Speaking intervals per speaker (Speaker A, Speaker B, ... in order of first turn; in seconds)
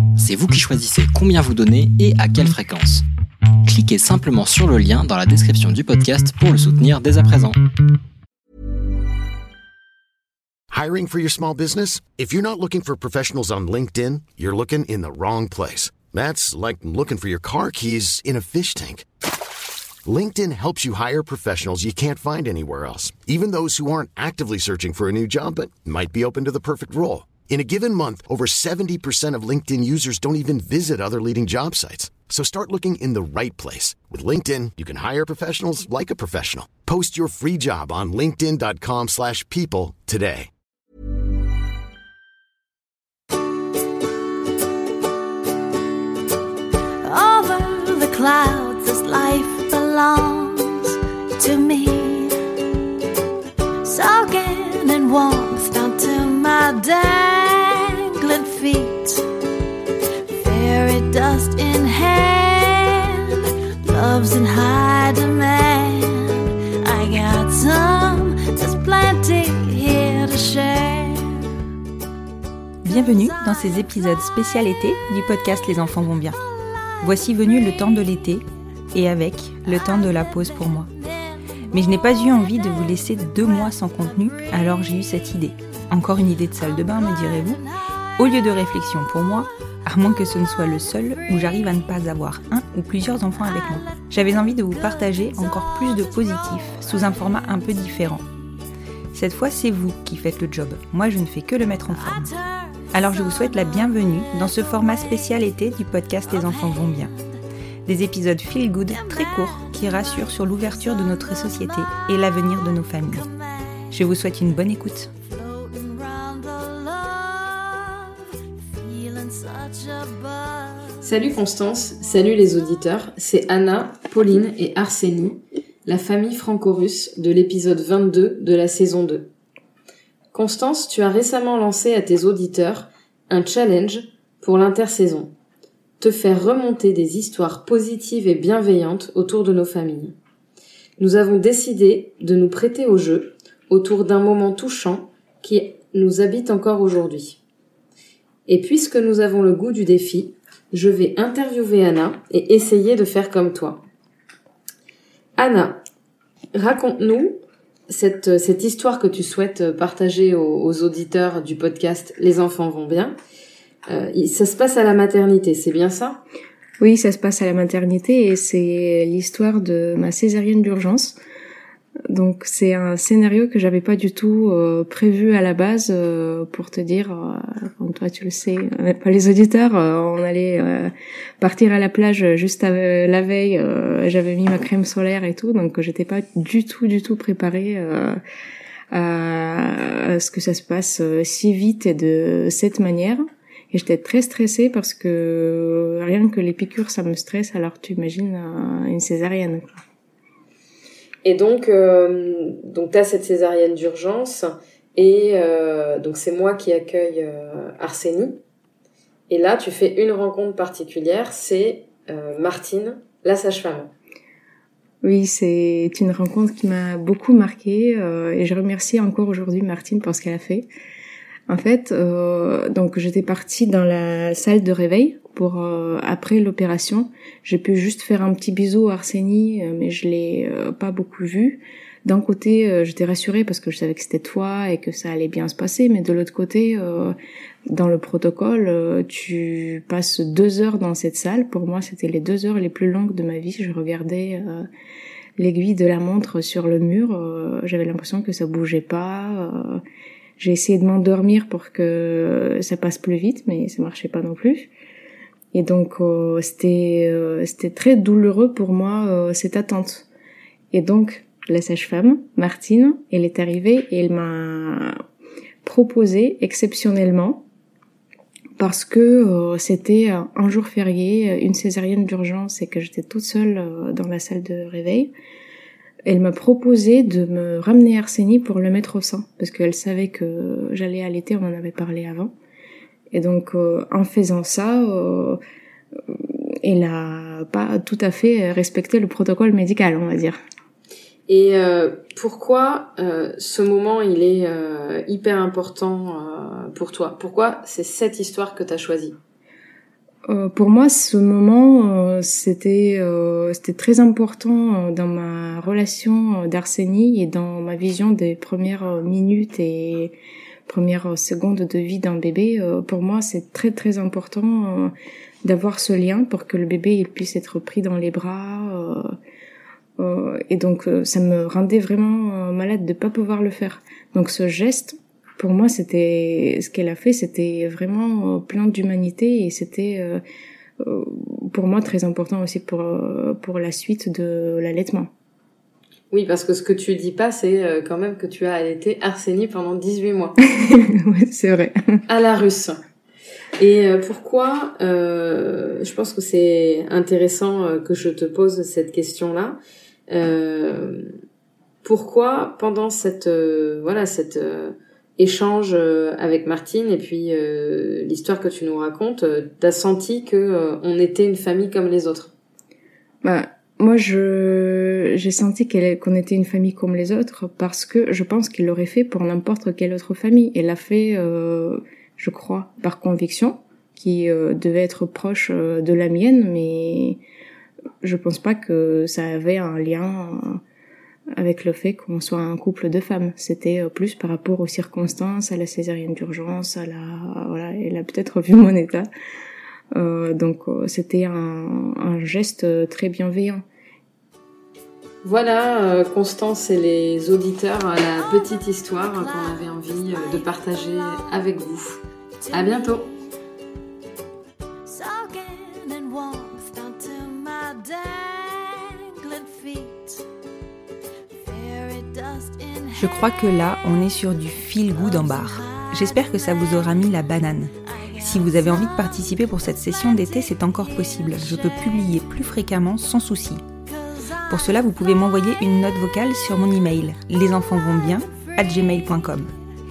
Speaker A: 0.2-3.0, 3.7-7.6
Speaker B: 10.7-19.1, 20.1-40.5
Speaker C: 47.0-52.4, 53.8-59.2, 60.3-71.4, 109.4-110.0, 115.3-118.2, 118.7-121.0, 398.7-401.5, 402.5-403.0, 404.9-410.2, 411.5-413.2, 415.9-416.4, 418.3-418.9
Speaker D: 72.8-76.4, 77.0-80.9, 81.7-87.6, 88.2-98.2, 99.1-102.3, 102.9-107.1, 107.9-113.3, 113.9-115.1, 413.0-423.6, 424.5-429.5
Speaker E: 121.0-129.3, 130.3-135.3, 136.0-140.2, 141.0-147.4, 148.5-153.8, 155.4-155.8, 156.5-163.2, 163.9-166.2, 201.2-208.4, 209.3-213.9, 291.3-299.2, 336.1-340.4, 342.1-342.8, 343.6-351.1, 351.8-362.3, 395.2-402.0, 402.5-403.1
Speaker F: 166.8-171.2, 172.1-188.2, 188.9-193.2, 193.7-199.7, 215.0-220.7, 221.5-237.2, 237.7-244.7, 245.4-249.8, 250.4-254.7, 255.5-260.1, 260.7-264.9, 265.6-267.4, 268.6-275.1, 276.1-282.3, 283.1-285.4, 286.1-290.4, 300.3-310.1, 310.7-314.9, 315.4-319.1, 320.0-330.2, 330.8-335.1, 340.4-342.0, 363.2-377.2, 378.0-380.6, 381.4-389.1, 389.9-393.6